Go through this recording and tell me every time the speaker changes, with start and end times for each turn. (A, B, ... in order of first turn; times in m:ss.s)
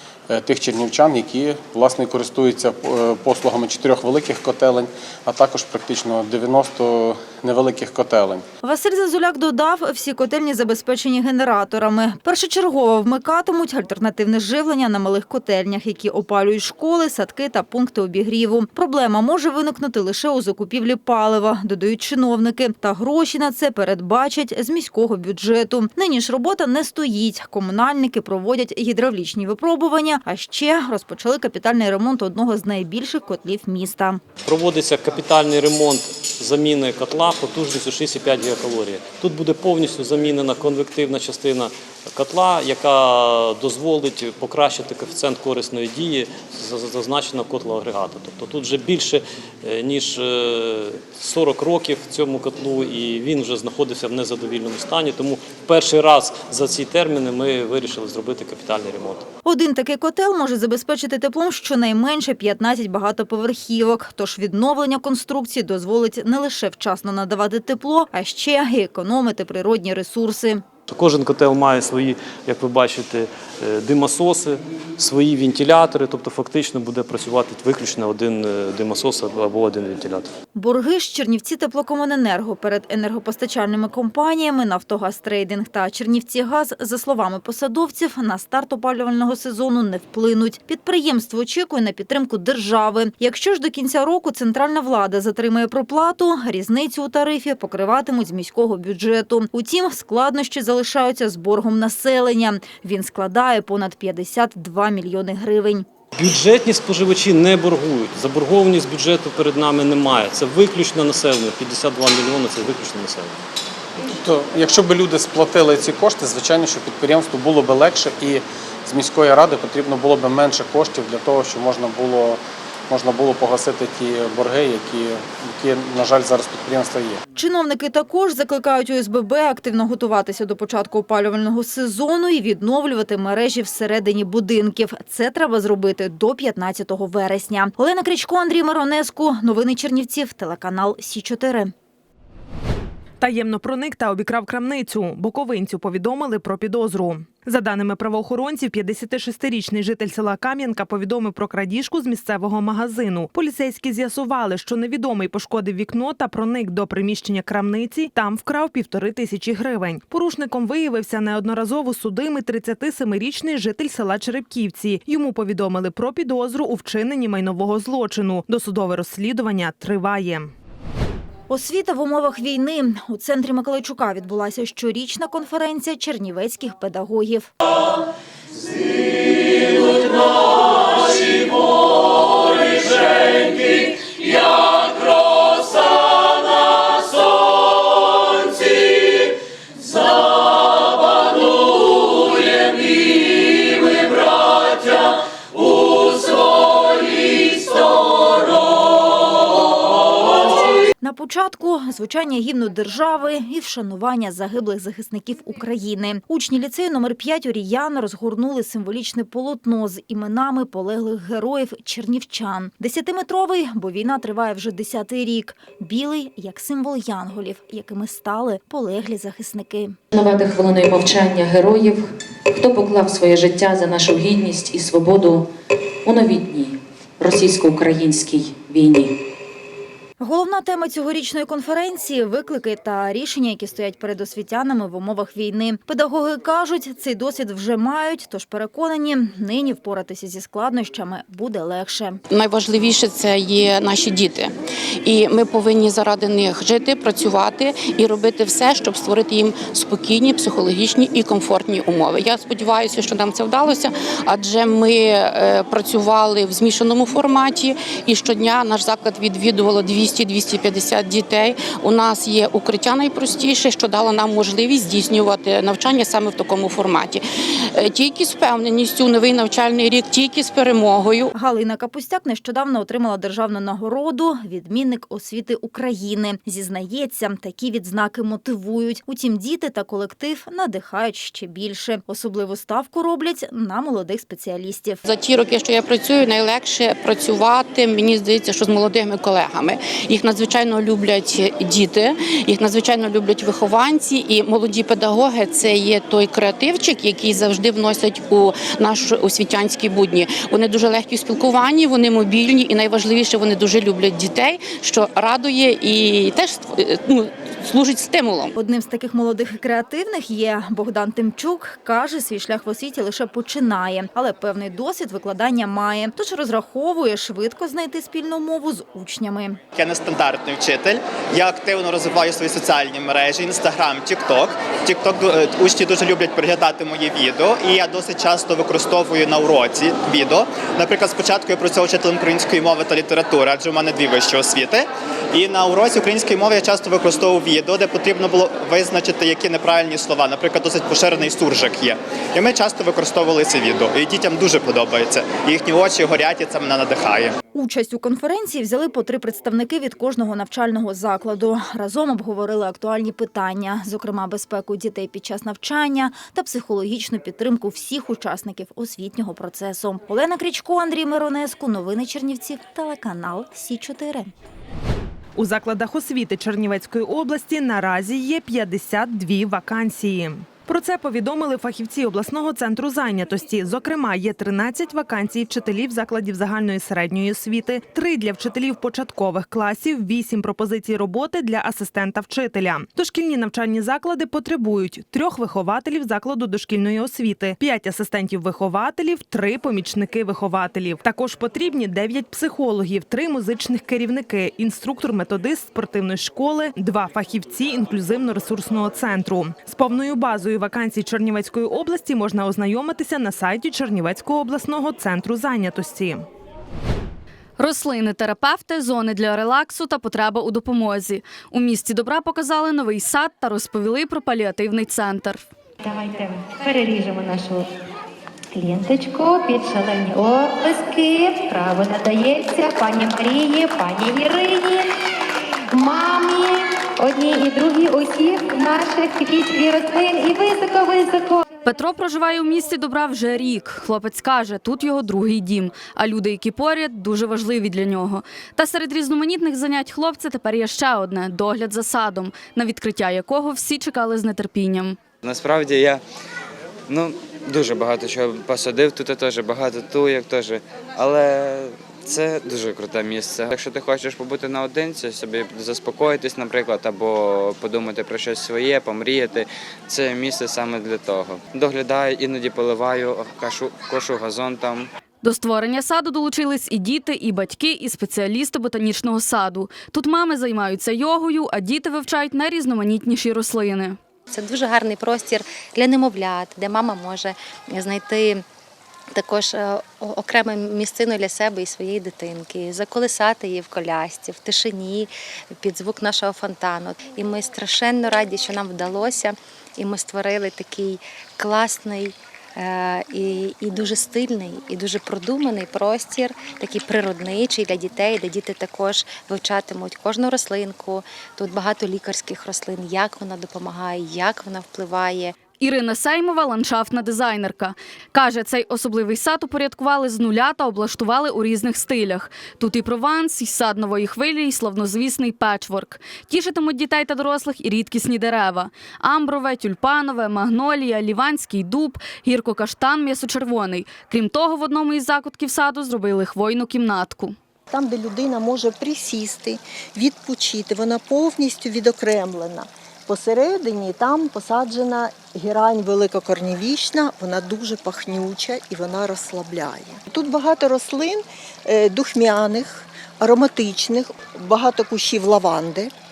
0:00.3-0:08.4 A
0:08.6-0:34.2 B
0:34.4-0:59.2 C
0:59.4-1:10.6 B
1:10.9-1:20.3 C
1:20.5-1:45.8 B
1:46.1-1:53.4 C
1:54.1-2:07.2 A
2:07.3-2:21.7 B
2:23.2-2:50.5 D
2:51.5-2:57.5 B
3:20.8-3:40.0 B
3:40.2-3:42.0 E
3:42.5-3:45.3 E
3:46.0-3:46.6 E
3:47.2-3:49.0 E
3:50.2-4:02.2 B
4:02.3-4:31.3 F
4:31.3-4:45.0 B
4:45.0-5:08.5 F
5:08.6-5:19.6 B
5:19.7-5:47.3 G
5:47.5-6:04.3 B
6:05.4-6:46.2 D
6:47.6-6:55.5 H
6:55.8-6:57.7 I
6:58.5-7:04.9 I
7:05.7-7:11.4 I
7:11.6-7:25.0 H
7:25.2-7:26.0 J
7:26.9-7:44.9 J
7:45.2-7:54.0 H
7:54.3-7:58.4 K
7:59.1-8:25.3 K
8:25.6-8:47.3 H
8:47.7-9:05.9 L